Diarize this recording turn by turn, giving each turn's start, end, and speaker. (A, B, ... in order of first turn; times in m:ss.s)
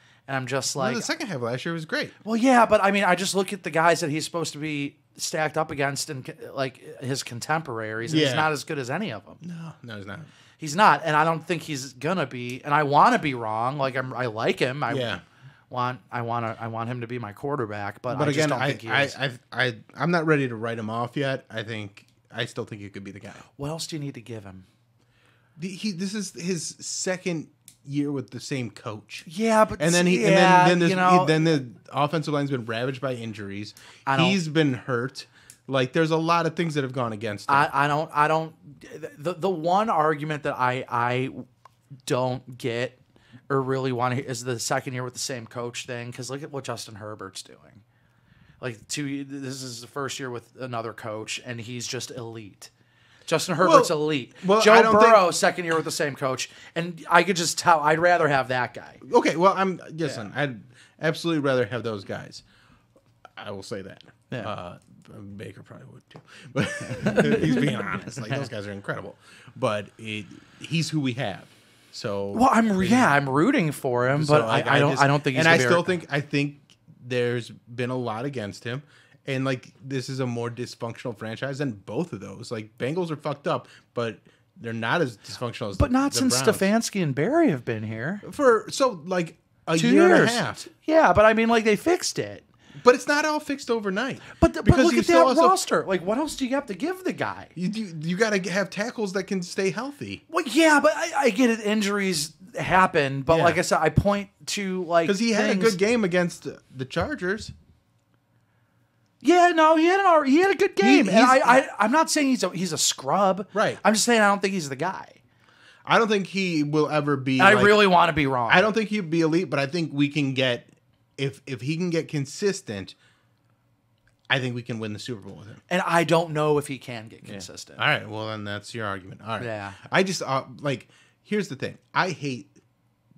0:00.3-0:01.1 A
0:00.8-0:02.1 B
0:02.2-0:09.4 A
0:08.0-0:08.5 B
0:09.4-0:10.3 B
0:10.6-0:15.2 A
0:14.9-0:15.2 B
0:15.7-0:19.2 A
0:18.1-0:23.4 B
0:23.6-0:24.6 A
0:25.6-0:29.3 B
0:29.3-0:31.6 A
0:29.8-0:37.7 B
0:34.1-0:34.4 A
0:37.5-0:41.4 A
0:42.0-0:43.0 A
0:43.5-0:47.8 A
0:48.6-0:52.7 A
0:53.3-0:59.0 A
0:53.6-0:55.2 B
0:59.0-1:02.4 B
1:00.0-1:00.3 A
1:03.4-1:13.1 B
1:06.9-1:08.5 A
1:12.3-1:16.0 A
1:14.1-1:26.6 B
1:25.8-1:28.2 A
1:28.2-1:30.7 B
1:29.8-1:32.4 A
1:32.8-1:35.5 B
1:34.4-1:37.5 A
1:37.6-1:40.2 B
1:40.3-1:45.8 A
1:43.3-1:43.6 B
1:45.0-1:47.5 B
1:49.2-1:55.2 A
1:50.8-1:51.6 B
1:53.5-1:53.8 B
1:55.8-1:57.9 B
1:57.4-1:58.7 A
1:58.5-2:02.9 B
2:04.3-2:05.6 B
2:05.7-2:07.8 A
2:07.2-2:12.5 B
2:09.4-2:09.8 A